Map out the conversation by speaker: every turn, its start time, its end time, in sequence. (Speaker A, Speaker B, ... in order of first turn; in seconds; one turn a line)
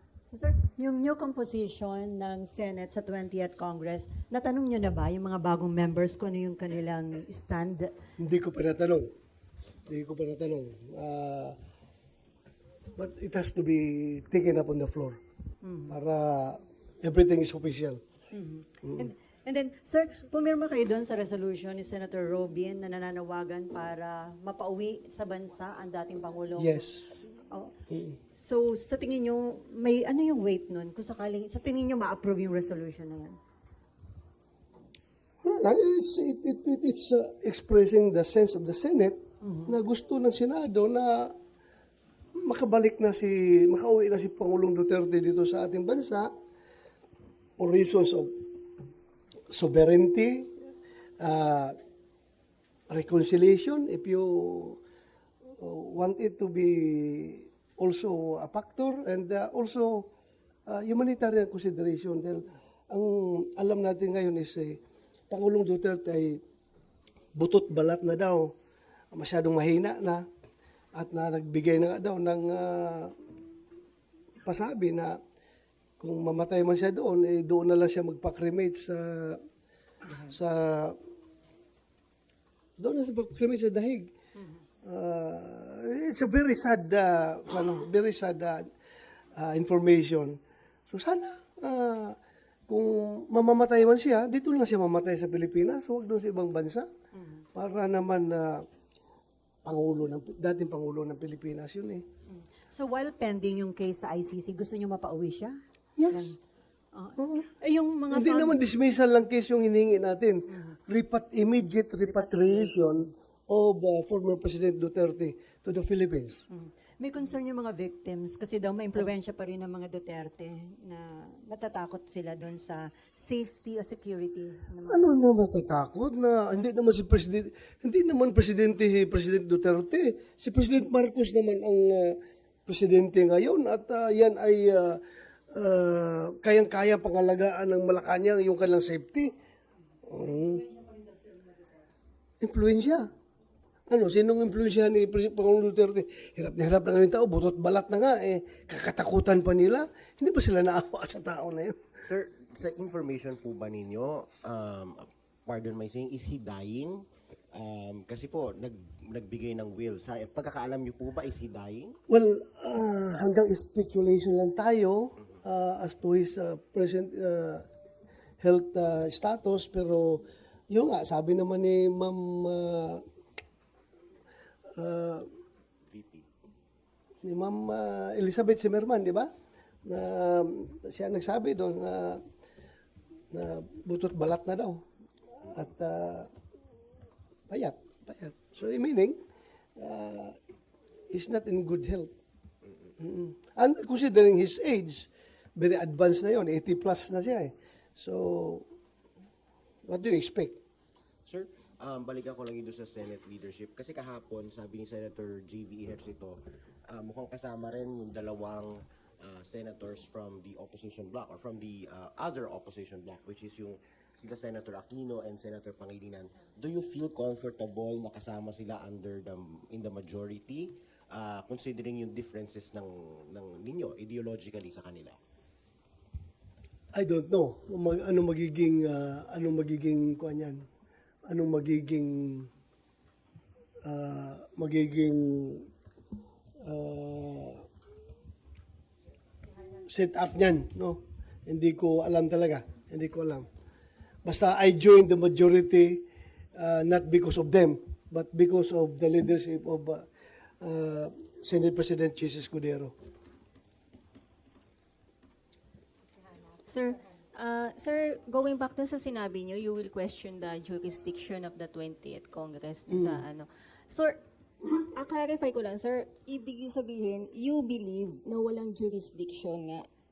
Speaker A: 0.3-8.0
Speaker B: 8.2-9.1
Speaker B: 9.9-11.6
Speaker B: 13.0-15.2
Speaker A: 15.6-15.9
Speaker B: 15.9-18.0
Speaker A: 18.3-26.8
Speaker B: 26.6-27.0
Speaker B: 27.9-28.2
Speaker A: 28.3-33.4
Speaker B: 35.4-41.4
Speaker A: 39.4-39.8
Speaker B: 42.4-46.3
Speaker B: 47.6-48.4
Speaker B: 49.5-50.5
Speaker B: 51.2-51.8
Speaker B: 52.9-54.8
Speaker B: 55.6-60.1
Speaker B: 60.7-64.8
Speaker B: 65.3-66.4
Speaker B: 67.3-68.5
Speaker B: 69.1-70.2
Speaker B: 71.0-73.1
Speaker B: 74.5-75.2
Speaker B: 76.0-79.4
Speaker B: 80.3-81.0
Speaker B: 82.8-84.1
Speaker B: 84.8-88.7
Speaker B: 89.4-90.4
Speaker B: 90.9-92.2
Speaker B: 92.7-96.9
Speaker A: 97.2-97.4
Speaker B: 97.5-98.6
Speaker B: 99.7-102.0
Speaker A: 102.3-105.6
Speaker B: 106.0-106.3
Speaker A: 106.1-106.4
Speaker A: 106.9-108.6
Speaker B: 107.2-107.5
Speaker B: 108.1-116.4
Speaker A: 112.1-112.8
Speaker A: 116.5-125.1
Speaker B: 124.9-139.3
Speaker B: 140.1-140.7
Speaker B: 142.4-143.1
Speaker B: 143.9-151.8
Speaker C: 152.0-157.0
Speaker C: 157.6-162.0
Speaker B: 162.1-167.7
Speaker B: 168.4-173.0
Speaker B: 174.8-175.3
Speaker C: 175.9-176.3
Speaker B: 177.2-179.3
Speaker B: 179.9-182.2
Speaker B: 183.3-184.8
Speaker B: 185.4-186.3
Speaker B: 187.5-189.2
Speaker B: 189.8-190.4
Speaker B: 191.1-192.1
Speaker B: 193.0-198.7
Speaker B: 199.9-200.6
Speaker C: 201.3-225.2
Speaker B: 226.9-230.7
Speaker B: 231.3-232.5
Speaker B: 233.8-235.7
Speaker B: 236.6-237.6
Speaker B: 239.9-243.5
Speaker B: 244.2-246.1
Speaker B: 246.6-250.1
Speaker B: 250.6-252.9
Speaker D: 256.7-264.2
Speaker B: 262.9-263.3
Speaker D: 265.0-269.8